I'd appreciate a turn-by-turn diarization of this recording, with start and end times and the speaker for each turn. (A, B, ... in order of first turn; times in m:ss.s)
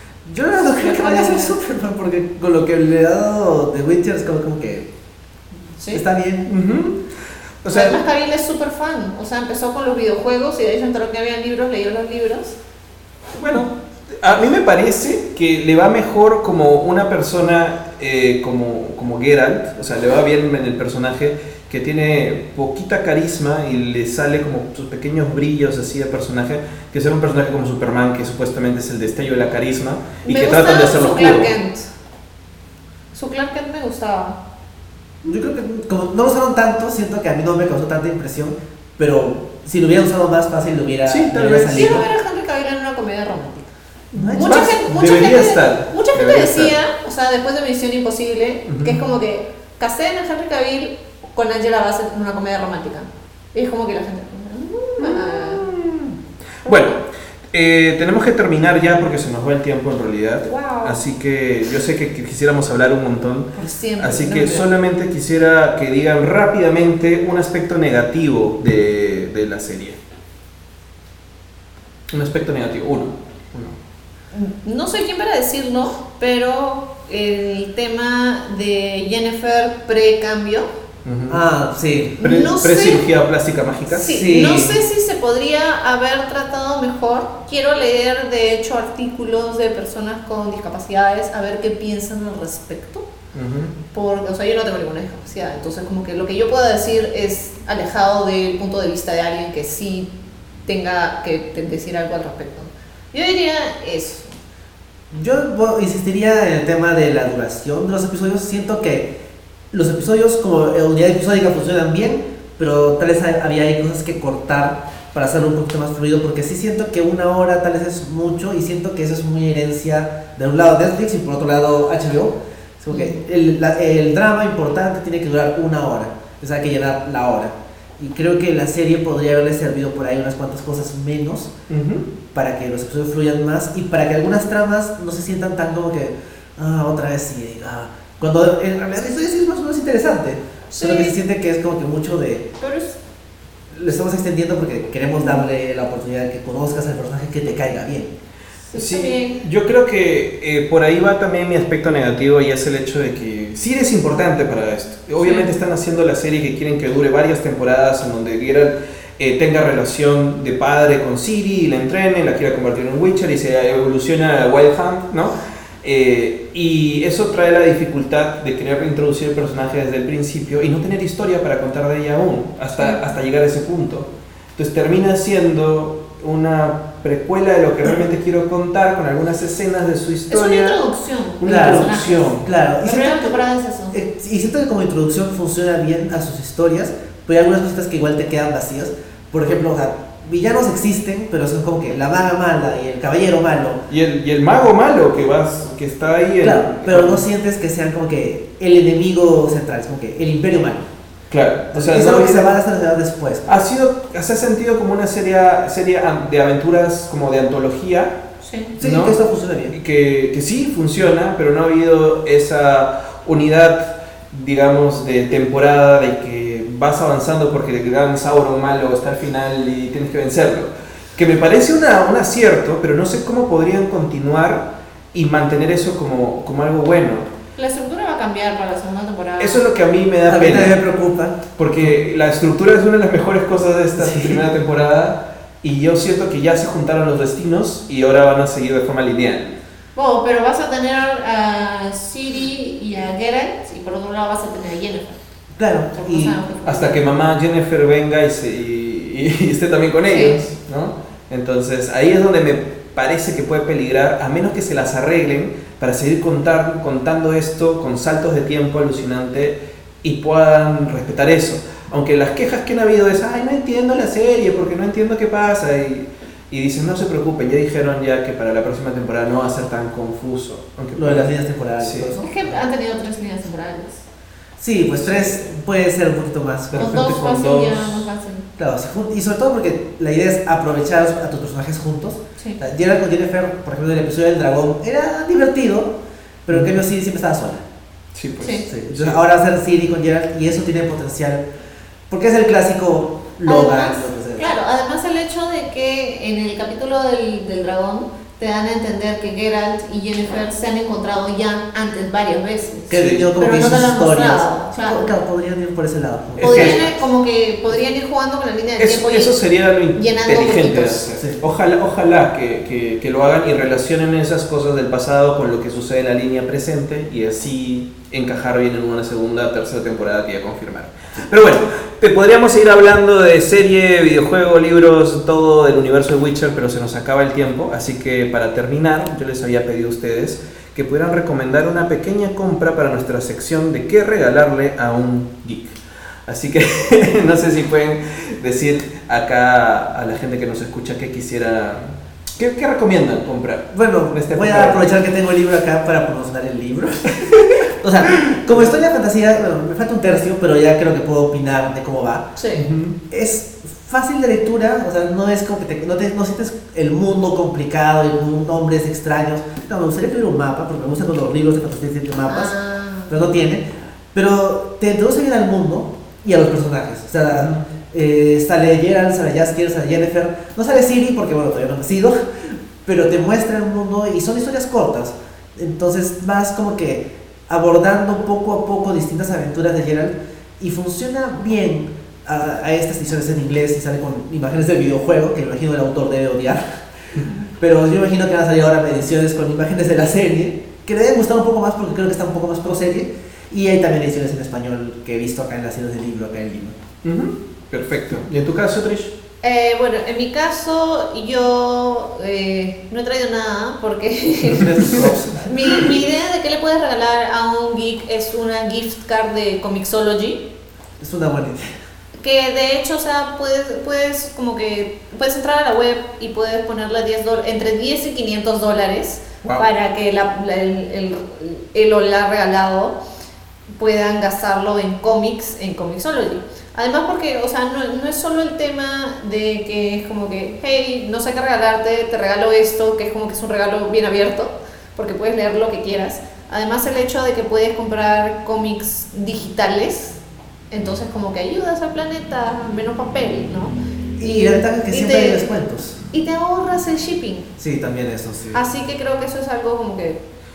0:00.2-0:04.9 A
0:00.7-0:01.5 B
0:05.8-0:06.0 B
0:05.9-0:06.5 A
0:06.5-0:07.0 C
0:07.6-0:08.0 C
0:07.7-0:12.6 B
0:13.4-0:31.5 C
0:30.2-0:31.9 B
0:33.1-0:34.4 B
0:35.2-0:42.0 A
0:41.0-0:42.0 C
0:41.7-0:43.7 B
0:44.1-0:46.7 C
0:44.1-0:44.8 A
0:44.3-0:55.6 B
0:48.7-0:49.0 C
0:55.0-0:57.0 C
0:56.6-0:56.9 B
0:57.5-1:10.0 C
1:00.4-1:01.0 B
1:03.5-1:04.6 B
1:12.1-1:13.8 C
1:14.3-1:20.7 B
1:21.0-1:21.4 C
1:21.3-1:22.2 A
1:22.2-1:23.0 B
1:22.2-1:24.1 C
1:23.9-1:33.1 B
1:24.1-1:24.8 A
1:33.3-1:33.7 C
1:33.9-1:40.1 B
1:40.7-1:44.3 B
1:45.1-1:49.1 A
1:49.7-2:11.5 A
2:02.9-2:03.2 B
2:11.7-2:12.1 C
2:12.3-2:22.5 A
2:20.7-2:21.2 B
2:22.6-2:23.0 B
2:23.7-2:28.1 A
2:28.7-2:29.4 B
2:28.7-3:00.8 C
2:35.2-2:35.5 B
3:00.3-3:04.0 B
3:01.4-3:02.4 C
3:01.4-3:03.4 A
3:03.9-3:13.8 A
3:13.9-3:17.2 C
3:16.4-3:20.8 A
3:21.3-3:22.5 C
3:21.7-3:23.5 A
3:23.4-3:28.2 C
3:28.4-3:28.7 B
3:28.8-3:29.7 A
3:28.8-3:29.2 C
3:29.7-3:47.3 C
3:47.6-3:49.6 B
3:49.4-3:50.8 C
3:50.2-3:51.9 A
3:51.6-3:59.6 C
3:54.0-3:54.4 A
3:59.9-4:05.2 B
4:05.5-4:06.3 A
4:05.9-4:07.0 B
4:06.6-4:32.1 C
4:10.1-4:10.4 B
4:30.9-4:32.6 A
4:32.2-4:34.0 B
4:34.6-4:37.0 A
4:35.0-4:35.4 C
4:36.7-4:38.1 C
4:36.7-4:38.4 B
4:38.6-4:45.9 A
4:46.4-4:47.6 A
4:46.5-4:46.8 C
4:48.1-4:49.2 C
4:48.4-4:48.6 B
4:48.7-4:51.4 A
4:52.1-4:54.5 A
4:53.4-5:05.1 B
5:02.9-5:07.0 A
5:02.9-5:03.3 C
5:06.4-5:06.8 C
5:06.4-5:09.3 B
5:08.8-5:44.9 C
5:09.9-5:11.0 B
5:43.7-5:47.3 A
5:47.1-5:48.6 C
5:47.8-5:52.3 A
5:52.4-5:52.6 B
5:52.5-5:52.9 C
5:53.1-6:02.6 A
6:02.3-6:03.1 B
6:03.1-6:36.7 A
6:07.3-6:07.6 C
6:37.0-6:39.1 C
6:39.4-6:50.4 B
6:44.5-6:45.8 A
6:44.9-6:45.1 C
6:51.0-6:51.7 A
6:52.2-7:03.0 B
7:03.8-7:20.2 B
7:20.7-7:25.5 B
7:24.2-7:26.0 A
7:26.1-7:27.5 B
7:27.6-7:28.6 A
7:28.5-7:30.2 B